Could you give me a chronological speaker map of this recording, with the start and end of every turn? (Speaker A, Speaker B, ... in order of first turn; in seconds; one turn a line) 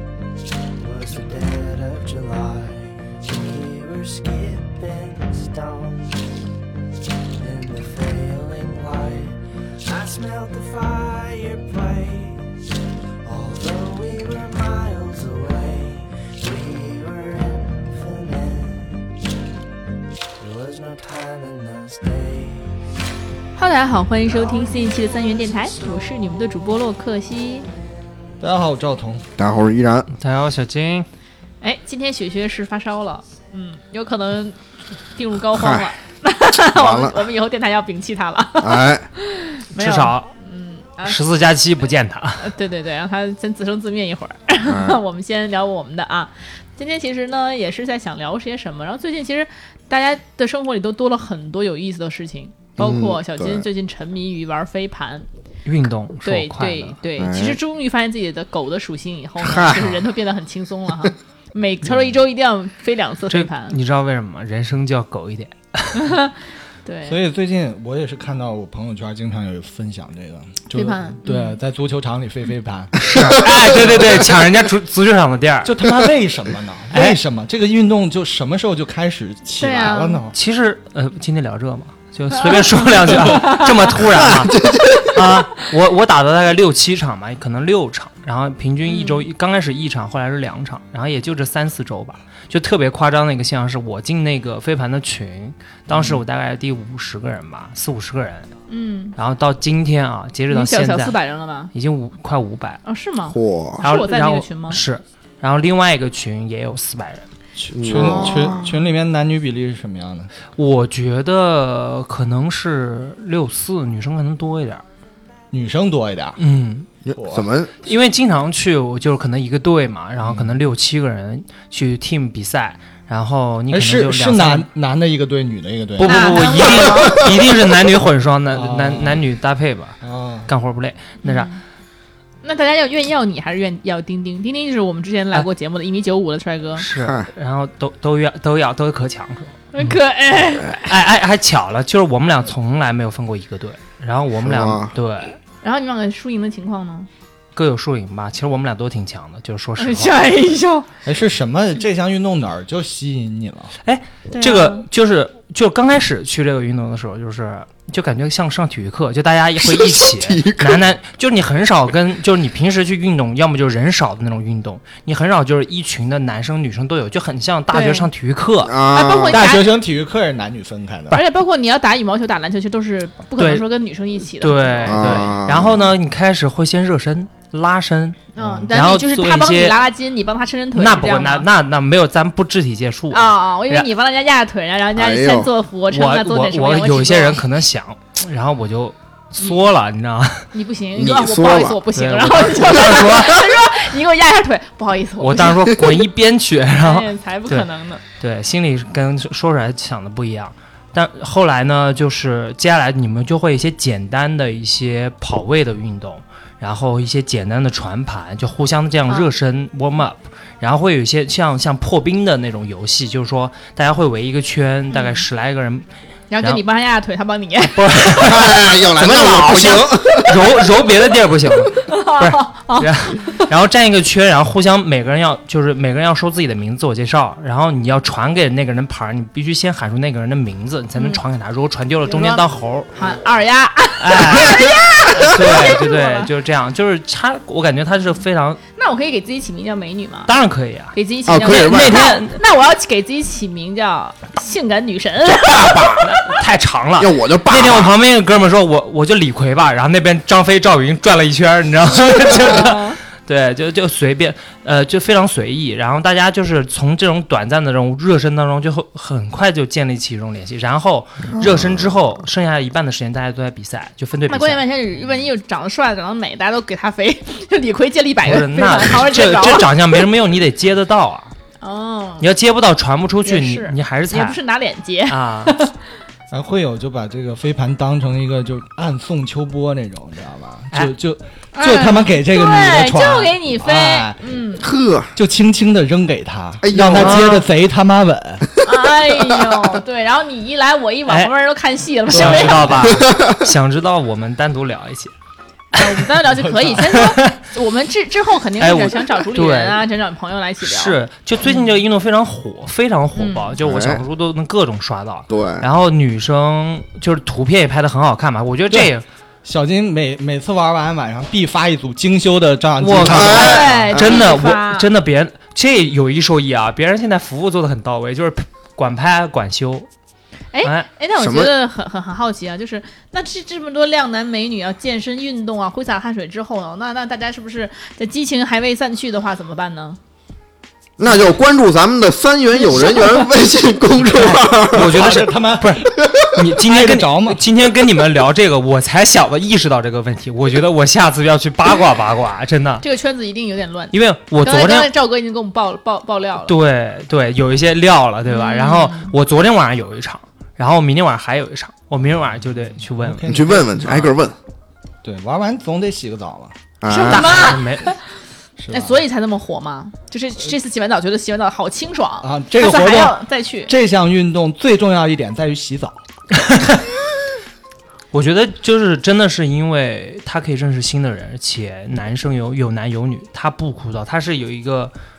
Speaker A: 0.8-6.2
Speaker A: 7.3-12.5
Speaker A: 13.2-19.1
Speaker A: 20.4-22.8
Speaker B: 23.6-27.7
Speaker A: 24.2-26.4
Speaker C: 28.4-29.3
Speaker D: 29.4-30.1
Speaker E: 30.1-31.1
Speaker B: 31.6-34.6
Speaker B: 35.1-41.2
Speaker D: 35.5-35.9
Speaker D: 36.7-37.2
Speaker D: 38.6-39.1
Speaker E: 39.8-40.3
Speaker E: 41.0-42.5
Speaker B: 42.4-55.3
Speaker D: 44.6-45.0
Speaker D: 52.8-53.7
Speaker E: 55.7-57.0
Speaker B: 56.2-63.8
Speaker D: 57.2-57.6
Speaker D: 59.4-59.9
Speaker E: 63.3-66.1
Speaker B: 65.9-67.2
Speaker C: 67.1-74.2
Speaker B: 70.8-71.6
Speaker E: 73.0-75.7
Speaker C: 75.6-80.4
Speaker E: 76.9-77.2
Speaker B: 79.6-80.2
Speaker E: 80.3-98.5
Speaker B: 83.2-83.7
Speaker D: 84.2-85.2
Speaker B: 88.9-89.3
Speaker C: 95.9-96.2
Speaker B: 98.7-99.2
Speaker E: 99.2-101.2
Speaker B: 100.5-101.7
Speaker E: 101.7-102.8
Speaker B: 102.8-104.8
Speaker D: 103.3-103.8
Speaker E: 103.8-107.3
Speaker C: 107.6-110.3
Speaker D: 107.7-108.7
Speaker E: 110.6-114.8
Speaker C: 115.5-116.4
Speaker E: 116.4-116.9
Speaker D: 117.1-117.8
Speaker C: 117.2-117.5
Speaker E: 117.8-124.7
Speaker C: 120.2-120.5
Speaker C: 123.7-126.4
Speaker E: 126.0-131.5
Speaker B: 126.0-127.3
Speaker C: 128.5-129.2
Speaker C: 130.0-130.5
Speaker B: 131.2-131.6
Speaker B: 132.4-136.8
Speaker E: 136.8-140.0
Speaker D: 137.0-137.3
Speaker B: 139.7-140.9
Speaker E: 140.9-145.4
Speaker D: 144.4-144.9
Speaker B: 145.6-147.1
Speaker E: 147.6-150.3
Speaker B: 149.8-150.9
Speaker C: 151.1-153.7
Speaker E: 153.8-168.7
Speaker B: 154.3-154.8
Speaker D: 159.6-160.9
Speaker B: 167.7-168.1
Speaker D: 168.7-169.5
Speaker B: 168.9-169.7
Speaker C: 169.3-171.2
Speaker B: 171.1-175.3
Speaker E: 173.4-173.7
Speaker E: 174.4-178.2
Speaker D: 174.9-175.9
Speaker B: 178.3-181.5
Speaker C: 178.4-178.7
Speaker E: 178.7-179.8
Speaker E: 180.8-183.9
Speaker B: 183.1-187.4
Speaker D: 185.0-185.5
Speaker E: 185.9-190.5
Speaker B: 190.5-195.8
Speaker D: 191.0-191.8
Speaker E: 191.9-193.5
Speaker E: 195.2-197.7
Speaker B: 196.8-198.0
Speaker E: 198.2-215.9
Speaker B: 214.9-215.2
Speaker B: 216.3-218.4
Speaker E: 217.8-232.9
Speaker D: 218.2-220.4
Speaker B: 221.8-223.4
Speaker B: 231.0-231.2
Speaker B: 232.1-236.3
Speaker E: 234.0-238.6
Speaker B: 238.8-240.3
Speaker E: 240.3-242.4
Speaker B: 240.9-246.4
Speaker D: 241.3-242.0
Speaker D: 245.5-246.1
Speaker E: 246.0-264.6
Speaker D: 247.0-247.9
Speaker B: 252.2-253.0
Speaker D: 261.4-261.7
Speaker B: 264.3-269.7
Speaker E: 268.2-271.3
Speaker B: 271.6-272.3
Speaker E: 272.2-274.4
Speaker B: 273.2-275.8
Speaker E: 275.1-275.6
Speaker C: 276.3-284.4
Speaker B: 281.6-284.7
Speaker D: 284.6-285.1
Speaker C: 285.1-288.5
Speaker D: 286.6-287.4
Speaker E: 286.9-287.4
Speaker B: 288.6-292.9
Speaker D: 289.2-289.6
Speaker C: 292.1-293.0
Speaker E: 292.1-295.1
Speaker D: 292.9-293.4
Speaker B: 295.7-301.8
Speaker E: 295.8-296.0
Speaker C: 296.3-296.9
Speaker E: 296.8-297.4
Speaker E: 298.6-299.8
Speaker E: 300.6-309.1
Speaker B: 303.1-303.6
Speaker D: 303.6-304.0
Speaker D: 305.3-305.7
Speaker C: 309.4-313.9
Speaker E: 312.8-319.9
Speaker D: 313.0-314.2
Speaker B: 313.2-314.9
Speaker B: 320.5-330.0
Speaker D: 321.2-321.5
Speaker D: 331.0-334.9
Speaker B: 332.6-333.3
Speaker E: 334.1-342.9
Speaker C: 334.7-335.9
Speaker C: 336.6-337.4
Speaker B: 342.8-346.6
Speaker E: 343.9-344.9
Speaker E: 346.5-353.4
Speaker B: 348.3-349.1
Speaker C: 353.0-354.1
Speaker D: 353.3-354.4
Speaker C: 355.0-356.6
Speaker D: 356.8-357.6
Speaker B: 356.9-358.0
Speaker E: 357.1-357.9
Speaker C: 358.6-359.0
Speaker B: 358.7-363.7
Speaker C: 362.2-366.0
Speaker E: 366.4-366.8
Speaker E: 368.1-374.9